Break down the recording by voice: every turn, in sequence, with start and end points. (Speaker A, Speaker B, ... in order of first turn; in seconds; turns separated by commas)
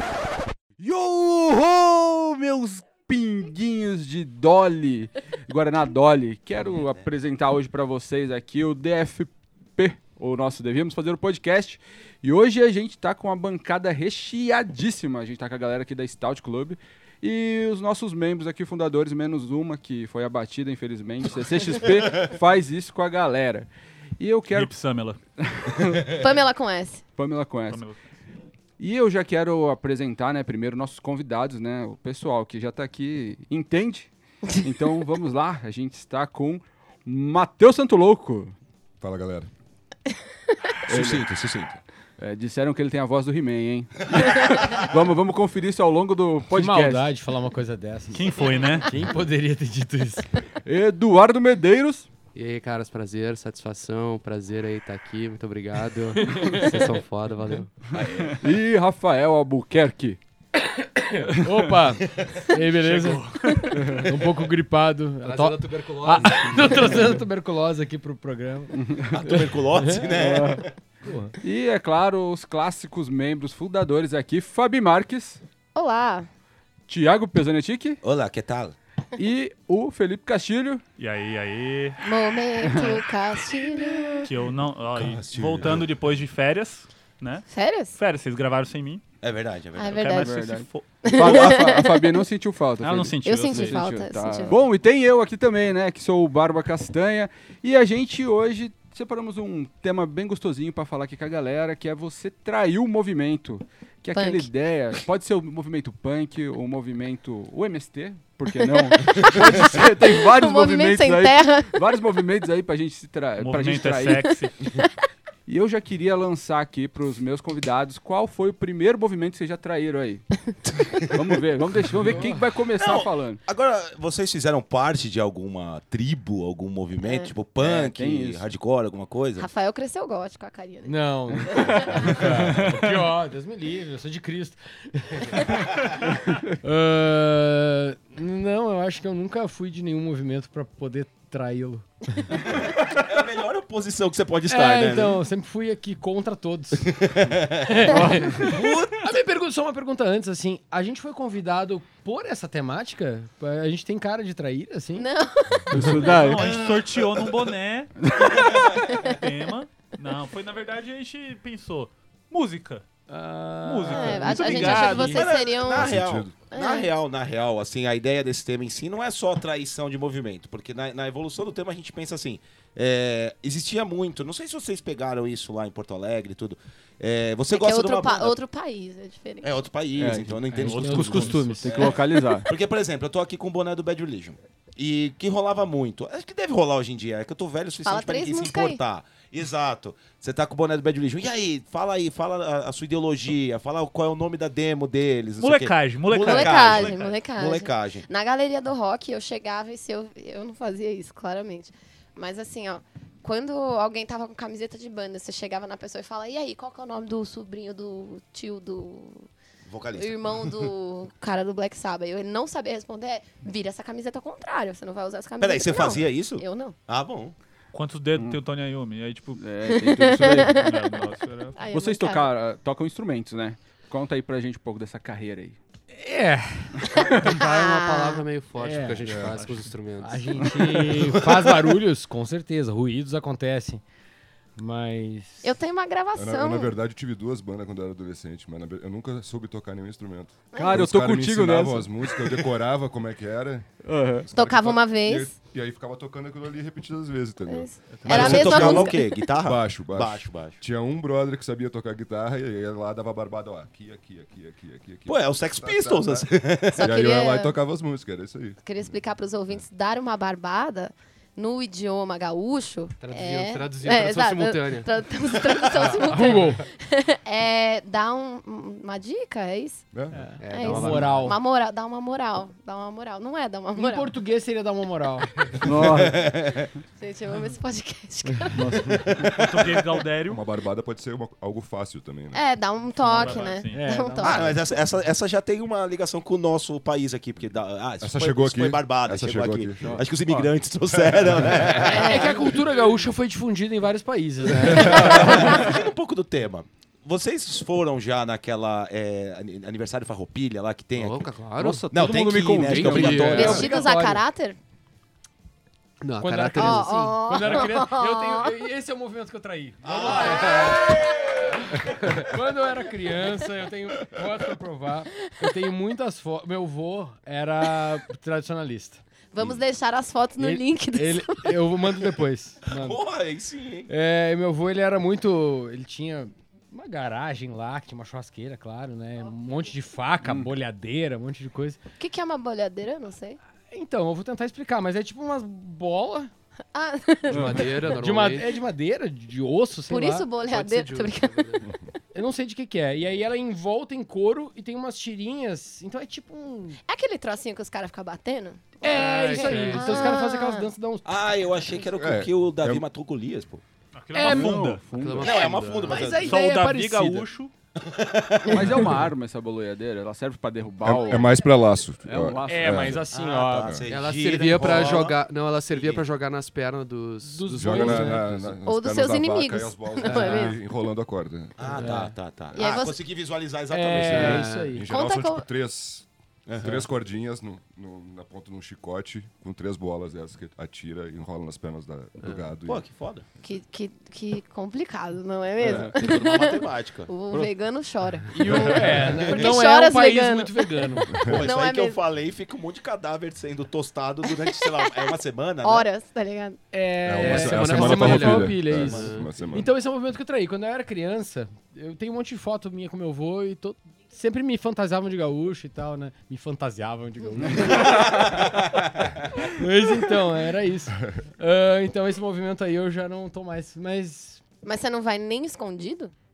Speaker A: 0.8-24.7, Speaker B: 6.5-7.1, Speaker C: 24.5-25.2, Speaker A: 25.4-26.3, Speaker D: 26.2-27.0, Speaker A: 27.2-27.9, Speaker C: 27.7-28.0, Speaker A: 28.8-34.1, Speaker A: 34.6-38.5, Speaker E: 39.0-39.5, Speaker B: 40.9-41.8, Speaker A: 40.9-41.3, Speaker A: 42.2-47.1, Speaker F: 46.5-50.3, Speaker C: 48.1-48.9, Speaker A: 50.6-52.1, Speaker G: 52.4-58.3, Speaker F: 56.1-57.0, Speaker F: 58.0-58.3, Speaker A: 58.3-60.2, Speaker F: 60.6-70.2, Speaker A: 61.3-61.7, Speaker C: 62.7-64.0, Speaker A: 63.7-64.2, Speaker G: 65.2-67.2, Speaker A: 68.7-69.2, Speaker B: 69.1-70.7, Speaker A: 70.2-70.6, Speaker F: 71.0-71.3, Speaker A: 71.4-75.4, Speaker D: 75.8-76.3, Speaker A: 76.9-78.0, Speaker B: 78.0-78.8, Speaker A: 79.2-80.8, Speaker C: 81.0-82.0, Speaker D: 82.0-84.3, Speaker A: 82.6-82.9, Speaker C: 84.2-89.0, Speaker B: 85.0-85.9, Speaker D: 87.5-88.0, Speaker B: 89.2-90.2, Speaker D: 89.8-90.5, Speaker C: 89.9-91.2, Speaker A: 90.2-114.3, Speaker D: 91.0-92.2, Speaker C: 92.8-93.9, Speaker D: 93.2-94.6, Speaker D: 104.1-104.5, Speaker D: 109.0-111.8, Speaker C: 113.4-114.6, Speaker A: 115.5-120.2, Speaker B: 120.7-121.2, Speaker A: 121.1-123.4, Speaker F: 122.0-122.5, Speaker B: 122.8-129.5, Speaker D: 127.0-127.3, Speaker A: 127.6-128.4, Speaker D: 129.4-132.3, Speaker F: 130.9-135.9, Speaker C: 132.6-133.1, Speaker F: 136.6-142.3, Speaker B: 142.4-145.2, Speaker F: 144.5-147.0, Speaker B: 146.8-149.0, Speaker F: 147.7-155.1, Speaker A: 147.9-148.6, Speaker D: 154.9-156.1, Speaker A: 155.7-156.7, Speaker C: 155.7-162.9, Speaker F: 155.7-156.0, Speaker B: 156.4-156.9, Speaker A: 158.0-158.8, Speaker D: 158.8-159.2, Speaker F: 163.1-165.2, Speaker C: 163.6-165.3, Speaker D: 163.9-166.9, Speaker B: 164.7-178.4, Speaker E: 165.6-166.3, Speaker D: 177.5-179.5, Speaker B: 179.4-198.1, Speaker A: 180.0-182.5, Speaker F: 180.5-181.9, Speaker C: 180.6-181.7, Speaker D: 187.8-188.8, Speaker C: 195.4-197.2, Speaker D: 196.2-209.3, Speaker B: 209.6-210.7, Speaker D: 209.9-216.8, Speaker B: 215.4-217.3, Speaker C: 217.7-219.4, Speaker A: 219.4-220.7, Speaker D: 219.8-220.7, Speaker C: 220.3-221.6, Speaker D: 221.6-222.3, Speaker A: 221.7-225.6, Speaker F: 225.9-227.3, Speaker A: 226.9-227.3, Speaker G: 227.1-230.5, Speaker D: 227.3-228.2, Speaker F: 228.6-229.4, Speaker E: 229.1-229.4, Speaker C: 229.3-229.7, Speaker F: 230.0-233.8, Speaker F: 234.6-235.5, Speaker D: 235.4-236.7, Speaker E: 236.2-258.6, Speaker D: 240.5-240.8, Speaker A: 240.6-242.2, Speaker A: 243.8-244.3, Speaker D: 244.3-245.3, Speaker D: 247.5-249.2, Speaker C: 247.9-248.4, Speaker B: 248.1-250.6, Speaker B: 255.1-256.8, Speaker D: 256.8-257.6, Speaker D: 258.6-269.9, Speaker G: 263.0-264.9, Speaker F: 265.8-266.6, Speaker E: 269.9-270.2, Speaker F: 270.1-271.4, Speaker G: 270.4-271.2, Speaker D: 270.5-274.1, Speaker F: 273.8-275.5, Speaker A: 275.6-276.3, Speaker B: 275.8-276.7, Speaker D: 277.0-278.9, Speaker A: 278.5-279.4, Speaker B: 279.1-279.5, Speaker C: 279.3-280.4, Speaker E: 280.3-282.4, Speaker D: 282.3-284.6, Speaker C: 283.0-283.9, Speaker F: 283.2-284.6, Speaker B: 284.2-292.4, Speaker E: 288.0-290.0, Speaker A: 289.8-290.5, Speaker E: 290.9-291.8, Speaker F: 291.9-295.6, Speaker D: 291.9-292.4, Speaker B: 294.8-301.3, Speaker A: 294.8-295.5, Speaker D: 295.0-295.6, Speaker G: 300.9-301.9, Speaker A: 301.6-303.6, Speaker B: 301.9-303.6, Speaker G: 302.5-303.6, Speaker F: 303.1-304.2, Speaker D: 303.3-304.6, Speaker G: 306.0-307.1, Speaker F: 306.2-319.0, Speaker D: 306.6-308.6, Speaker B: 309.8-311.2, Speaker D: 310.1-311.1, Speaker D: 319.3-321.6, Speaker F: 320.4-323.0, Speaker B: 322.7-323.9, Speaker F: 323.9-331.8, Speaker A: 330.2-330.5, Speaker D: 332.0-333.4, Speaker F: 333.7-336.3, Speaker D: 336.7-337.7, Speaker F: 337.3-340.4, Speaker A: 337.3-337.6, Speaker G: 337.4-338.5, Speaker D: 339.9-341.9, Speaker G: 340.4-341.6, Speaker F: 342.1-346.8, Speaker D: 346.9-350.7, Speaker F: 348.8-351.2, Speaker C: 348.9-350.1, Speaker G: 349.1-349.9, Speaker B: 351.0-353.6, Speaker E: 351.9-352.8, Speaker C: 353.9-354.9, Speaker F: 354.1-354.6, Speaker A: 354.2-355.9, Speaker G: 354.9-355.8, Speaker B: 355.2-356.4, Speaker F: 355.8-357.3, Speaker C: 356.1-357.5, Speaker B: 357.8-359.0, Speaker A: 358.5-361.4, Speaker E: 360.8-363.1, Speaker A: 362.0-363.0, Speaker F: 362.4-363.8, Speaker B: 363.1-366.1, Speaker E: 363.6-363.9, Speaker G: 363.9-368.6, Speaker F: 364.6-365.0, Speaker F: 367.2-368.3, Speaker E: 367.6-371.9, Speaker D: 368.6-370.6, Speaker F: 370.1-370.6, Speaker B: 371.6-374.4, Speaker F: 371.6-372.2, Speaker D: 372.5-373.0, Speaker F: 373.7-374.9, Speaker G: 374.0-374.8, Speaker E: 374.2-376.1, Speaker D: 374.8-375.5, Speaker B: 376.5-376.9, Speaker E: 376.6-382.8, Speaker G: 382.2-382.5, Speaker B: 382.7-383.2, Speaker D: 383.4-392.0, Speaker B: 385.6-387.1, Speaker F: 388.3-391.2, Speaker E: 388.6-388.9, Speaker B: 391.2-395.9, Speaker D: 395.6-396.6, Speaker F: 396.7-408.3, Speaker E: 397.0-399.7, Speaker G: 397.2-399.6, Speaker A: 407.6-408.4, Speaker B: 407.6-409.1, Speaker F: 409.4-414.4, Speaker D: 414.6-416.1